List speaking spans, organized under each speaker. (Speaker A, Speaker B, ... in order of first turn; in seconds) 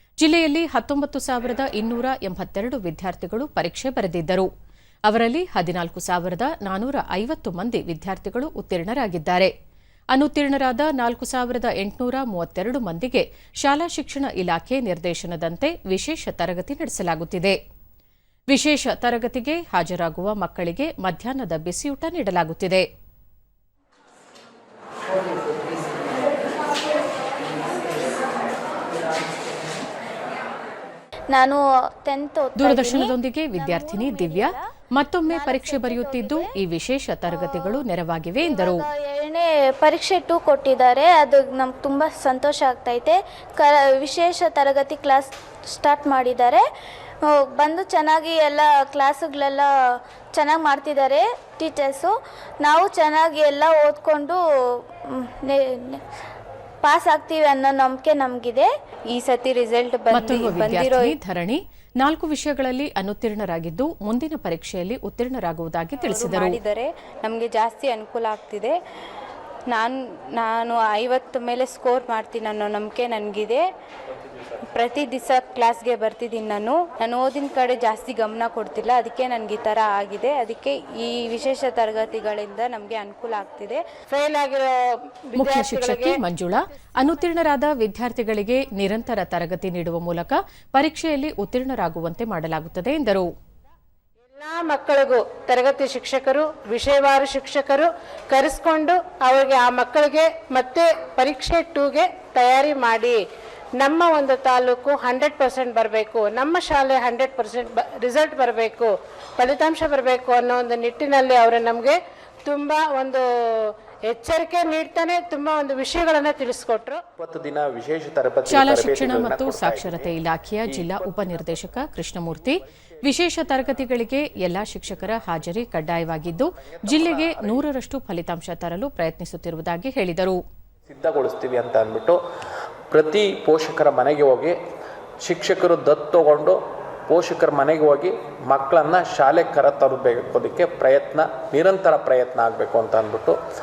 Speaker A: 0.2-4.5, 5.1-9.5, 10.1-17.6, 18.5-22.9, 32.6-38.8, 60.1-66.6, 85.4-93.3, 118.5-130.4
Speaker B: 31.3-34.6, 35.3-36.5, 37.3-37.8, 38.4-46.6, 47.2-56.0, 56.8-58.7
Speaker C: 59.1-61.2, 66.0-68.8, 69.7-73.6, 74.7-83.8
Speaker D: 84.1-86.2, 94.3-103.2, 103.8-117.0
Speaker E: 117.2-122.6, 124.6-125.2, 126.6-127.7, 130.9-132.2, 132.9-134.6, 135.2-143.4